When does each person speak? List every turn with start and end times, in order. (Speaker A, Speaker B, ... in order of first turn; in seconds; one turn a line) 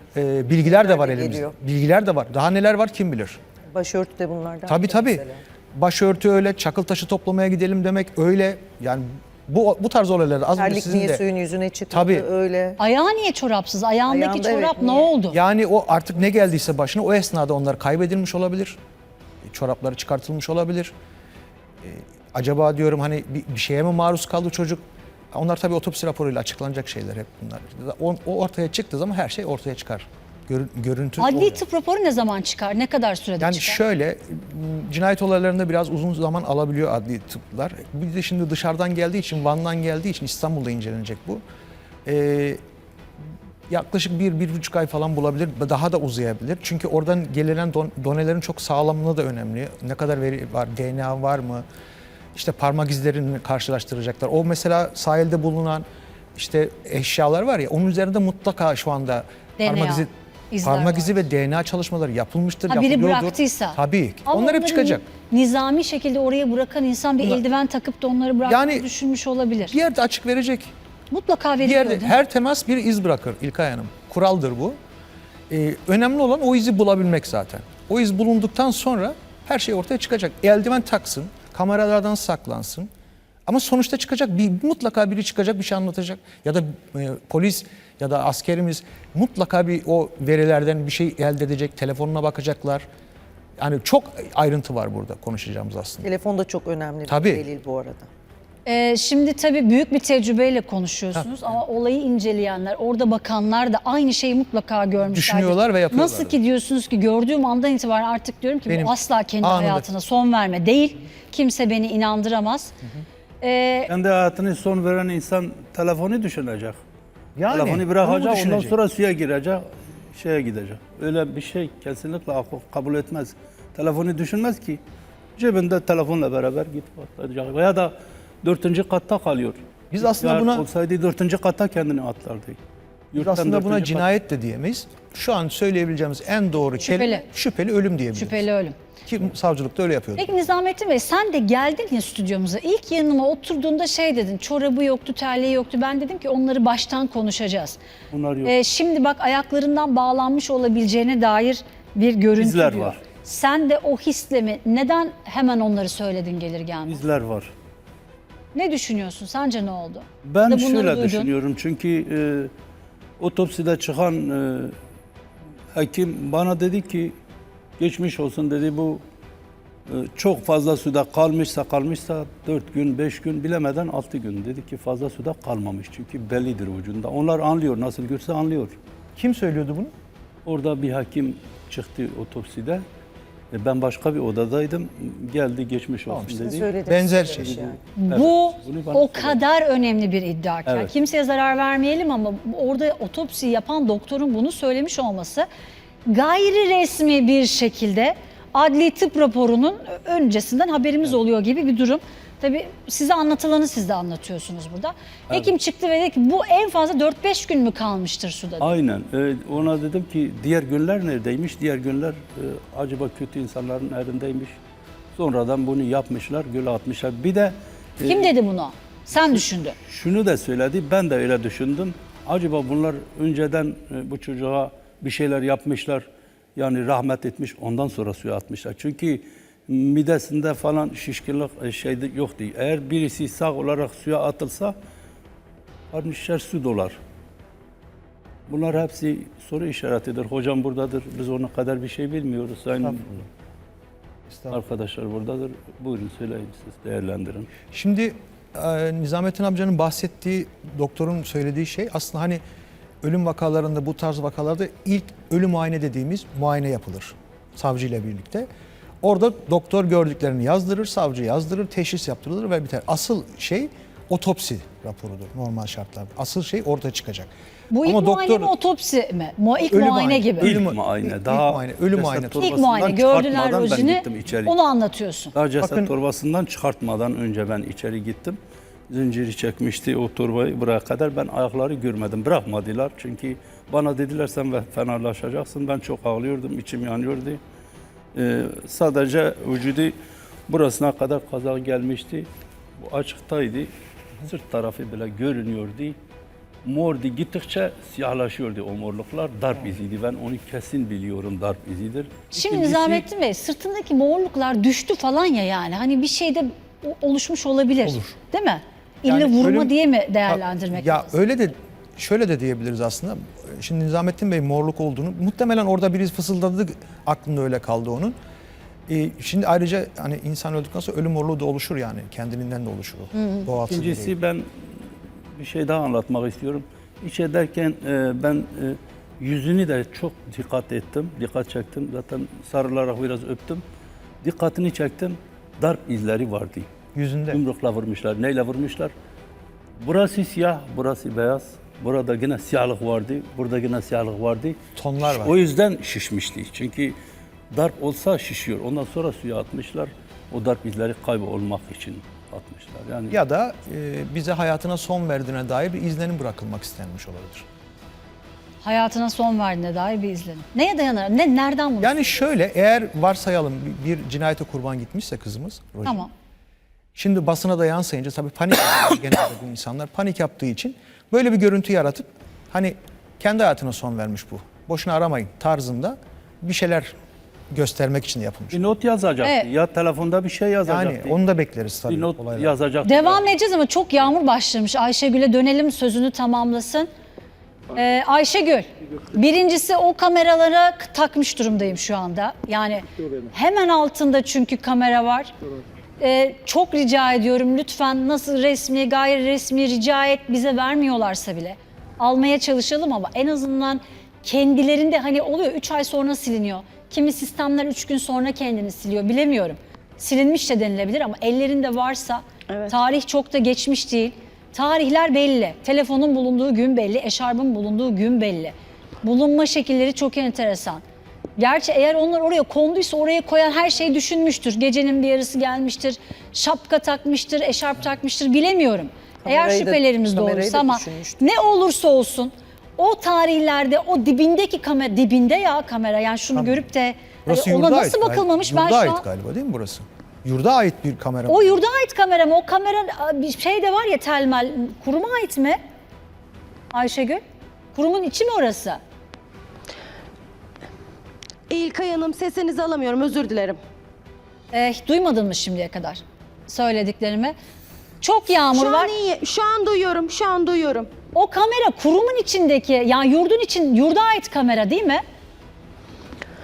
Speaker A: 0.1-3.4
Speaker B: 0.8-1.5
Speaker B: 3.7-5.4
Speaker A: 4.7-11.2
Speaker B: 10.6-12.8
Speaker A: 11.9-12.3
Speaker C: 12.8-15.4
Speaker B: 14.1-15.1
Speaker A: 15.3-18.8
Speaker A: 19.4-20.9
Speaker A: 21.8-24.8
Speaker A: 25.3-31.6
Speaker C: 31.2-33.8
Speaker A: 33.4-41.4
Speaker A: 42.0-42.6
Speaker A: 43.7-51.6
Speaker A: 52.3-55.8
Speaker A: 56.3-60.1
Speaker C: 59.6-61.2
Speaker A: 60.6-65.0
Speaker C: 62.7-69.8
Speaker A: 68.5-68.9
Speaker A: 69.7-70.7
Speaker C: 71.1-72.2
Speaker A: 71.6-74.8
Speaker A: 75.5-82.9
Speaker A: 83.5-92.8
Speaker A: 93.6-96.1
Speaker B: 96.0-98.1
Speaker A: 97.1-97.4
Speaker C: 98.6-112.7
Speaker A: 101.1-101.6
Speaker A: 105.1-106.4
Speaker A: 108.7-109.9
Speaker C: 113.4-113.9
Speaker D: 113.9-116.8
Speaker A: 117.3-118.8
Speaker D: 117.5-124.8
Speaker D: 125.4-132.6
Speaker A: 129.9-130.6
Speaker D: 133.1-134.1
Speaker A: 133.2-138.4
Speaker C: 136.8-137.2
Speaker C: 138.1-138.8
Speaker A: 139.0-140.3
Speaker C: 140.2-147.8
Speaker D: 148.1-148.6
Speaker C: 148.4-157.0
Speaker D: 152.3-153.0
Speaker D: 156.9-157.5
Speaker C: 158.5-161.3
Speaker D: 160.2-162.5
Speaker D: 163.2-164.7
Speaker D: 165.7-167.2
Speaker D: 167.8-169.0
Speaker D: 169.9-178.8
Speaker A: 179.2-179.9
Speaker D: 180.4-182.8
Speaker D: 183.5-186.7
Speaker A: 186.1-187.6
Speaker B: 186.4-187.8
Speaker D: 187.3-189.4
Speaker C: 188.0-195.5
Speaker D: 190.7-190.9
Speaker C: 196.1-208.7
Speaker D: 208.6-214.6
Speaker D: 215.1-218.3
Speaker C: 218.0-219.7
Speaker D: 219.2-234.7
Speaker D: 235.9-236.9
Speaker D: 238.5-243.2
Speaker A: 244.3-244.6
Speaker D: 244.5-247.5
Speaker A: 247.7-252.4
Speaker A: 253.0-258.5
Speaker A: 259.0-267.3
Speaker C: 267.7-270.5
Speaker A: 267.8-268.5
Speaker A: 269.6-272.6
Speaker D: 270.4-274.5
Speaker C: 272.4-275.3
Speaker D: 275.3-278.4
Speaker A: 275.6-275.9
Speaker D: 278.9-287.4
Speaker D: 288.1-289.9
Speaker D: 290.5-293.7
Speaker D: 294.2-296.0
Speaker D: 296.6-303.0
Speaker C: 302.3-311.2
Speaker A: 307.8-308.1
Speaker A: 309.1-309.7
Speaker A: 310.3-318.1
Speaker A: 318.9-324.1
Speaker C: 323.2-323.4
Speaker D: 323.7-324.4
Speaker D: 325.4-333.6
Speaker D: 334.2-336.7
Speaker A: 336.9-337.4
Speaker D: 337.3-338.9
Speaker D: 339.8-347.0
Speaker A: 344.8-345.4
Speaker D: 347.5-353.2
Speaker A: 353.1-357.4
Speaker C: 358.6-362.1
Speaker A: 361.8-366.1
Speaker C: 365.8-366.1
Speaker A: 366.9-376.9
Speaker A: 377.5-378.6
Speaker D: 378.5-381.2
Speaker C: 379.2-379.5
Speaker A: 380.6-382.5
Speaker D: 381.9-383.3
Speaker C: 382.8-386.9
Speaker C: 387.7-395.3
Speaker C: 396.0-420.8
Speaker C: 421.4-439.0
Speaker B: 429.2-431.2
Speaker A: 436.3-436.7
Speaker A: 437.2-441.6
Speaker C: 441.3-445.6
Speaker C: 446.7-447.2
Speaker C: 447.7-448.8
Speaker E: 451.5-453.6
Speaker C: 454.5-457.4
Speaker C: 458.0-458.9
Speaker E: 458.5-460.9
Speaker C: 461.1-465.0